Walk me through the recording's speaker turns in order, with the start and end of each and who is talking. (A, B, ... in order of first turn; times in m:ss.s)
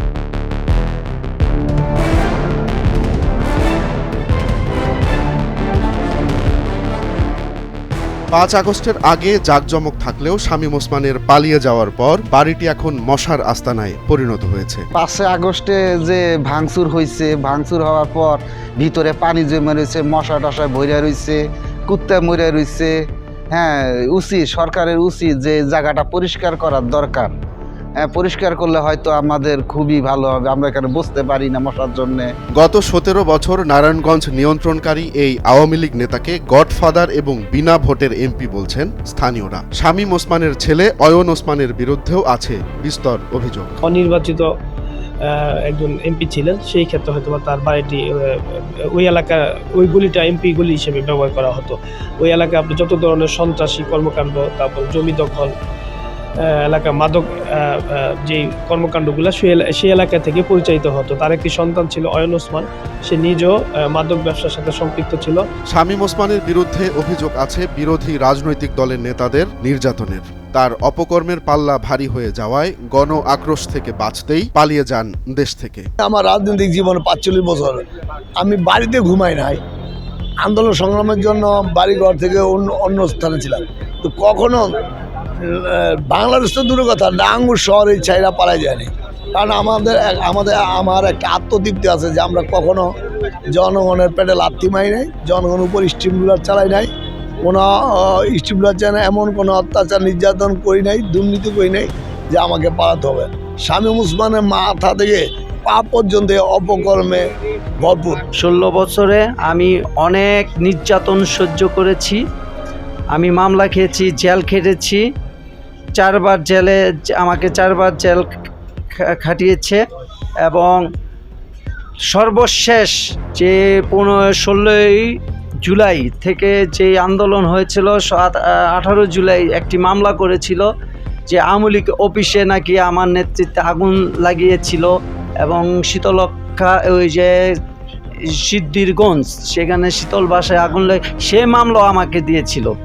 0:08.3-0:14.9 A
0:15.0-0:22.9 B
0:23.5-0:27.4 B
0:28.0-0:32.3 B
0:32.6-0:43.8 A
0:43.8-0:44.5 C
0:45.3-0:55.5 C
0:56.4-1:05.4 C
1:05.7-1:15.9 A
1:16.0-1:17.8 D
1:18.4-1:19.6 D
1:20.4-1:24.7 D
1:25.5-1:32.9 D
1:33.5-1:36.9 D
1:37.4-1:47.2 D
1:47.8-1:48.2 D
1:48.4-1:52.2 E
1:53.1-1:55.0 E
1:56.0-1:58.3 E
1:59.0-1:59.8 E
2:00.4-2:00.8 E
2:02.1-2:10.7 E
2:11.3-2:14.9 E
2:15.4-2:17.3 E
2:18.4-2:22.7 E